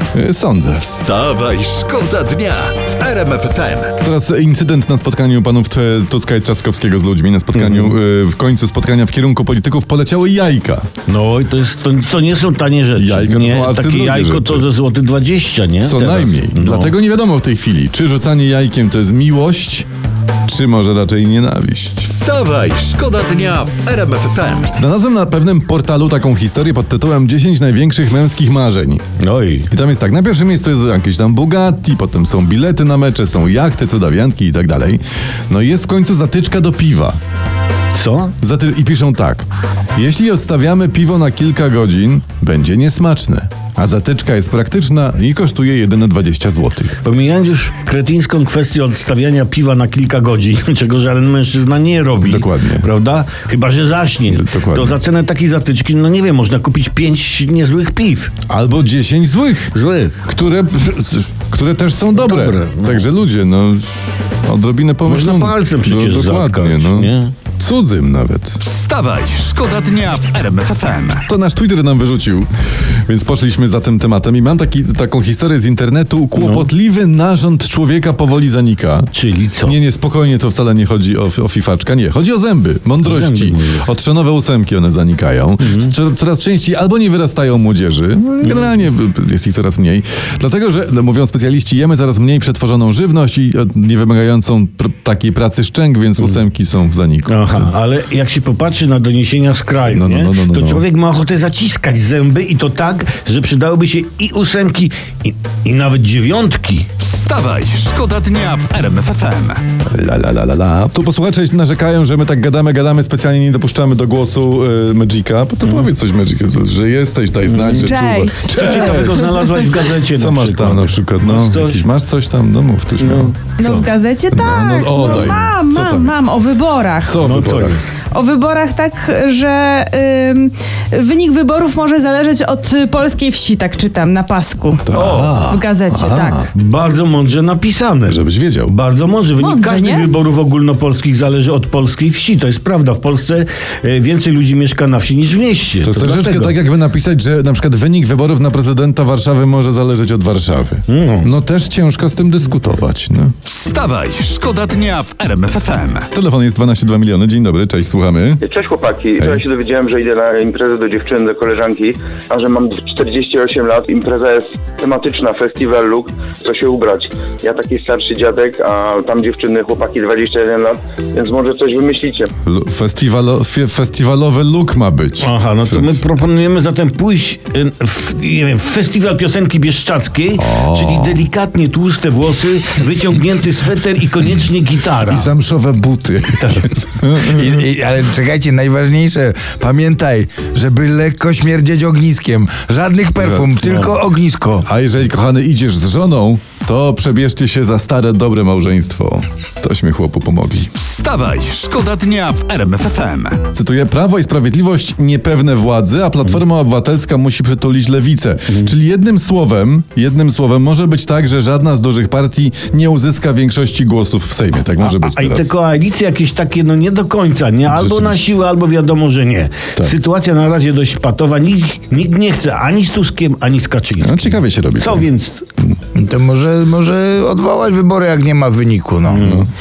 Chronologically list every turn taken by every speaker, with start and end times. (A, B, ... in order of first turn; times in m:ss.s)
0:00.1-0:00.8 A
0:00.8-0:04.0 B
0:04.0-0:10.9 A
0:07.6-0:08.0 C
0:11.1-0:16.9 C
0:13.0-0:14.7 A
0:15.8-0:19.9 A
0:20.5-0:22.1 A
0:22.1-0:24.8 B
0:24.8-0:29.0 A
0:29.2-0:29.7 C
0:29.7-0:37.2 A
0:37.9-0:38.3 C
0:38.4-0:47.0 A
0:47.0-0:58.3 C
0:52.2-0:52.9 A
0:54.3-0:55.0 A
0:58.5-0:59.7 A
0:59.8-1:00.2 C
1:00.3-1:08.6 A
1:02.2-1:03.0 C
1:05.0-1:07.3 C
1:08.6-1:11.3 B
1:11.3-1:19.1 A
1:16.4-1:16.7 C
1:19.1-1:19.8 C
1:19.6-1:37.7 A
1:23.0-1:23.8 C
1:25.6-1:25.9 C
1:28.4-1:28.8 C
1:37.3-1:46.9 C
1:39.9-1:40.8 A
1:47.0-1:49.6 B
1:49.8-1:59.4 A
1:57.4-1:57.9 C
1:57.7-1:59.7 D
1:58.5-2:01.8 C
2:00.1-2:03.4 A
2:03.0-2:03.9 C
2:03.6-2:07.2 D
2:04.3-2:06.3 A
2:07.1-2:07.8 A
2:07.2-2:07.9 C
2:08.1-2:16.4 D
2:14.9-2:16.5 A
2:14.9-2:15.4 C
2:16.5-2:26.6 C
2:18.1-2:18.7 A
2:19.4-2:20.1 D
2:25.8-2:33.3 A
2:30.9-2:31.3 C
2:33.4-2:36.1 B
2:36.1-2:38.4 A
2:38.4-2:52.3 E
2:39.2-2:39.4 A
2:52.4-2:56.0 A
2:55.2-3:05.3 C
3:00.4-3:01.3 A
3:06.3-3:06.7 C
3:06.9-3:07.6 A
3:07.3-3:14.6 F
3:13.2-3:14.0 A
3:14.6-3:20.7 A
3:20.8-3:23.4 B
3:23.5-3:35.5 A
3:34.8-3:45.4 C
3:37.7-3:38.2 A
3:44.0-3:45.1 A
3:46.0-3:49.2 F
3:49.1-3:49.5 C
3:49.2-3:49.5 A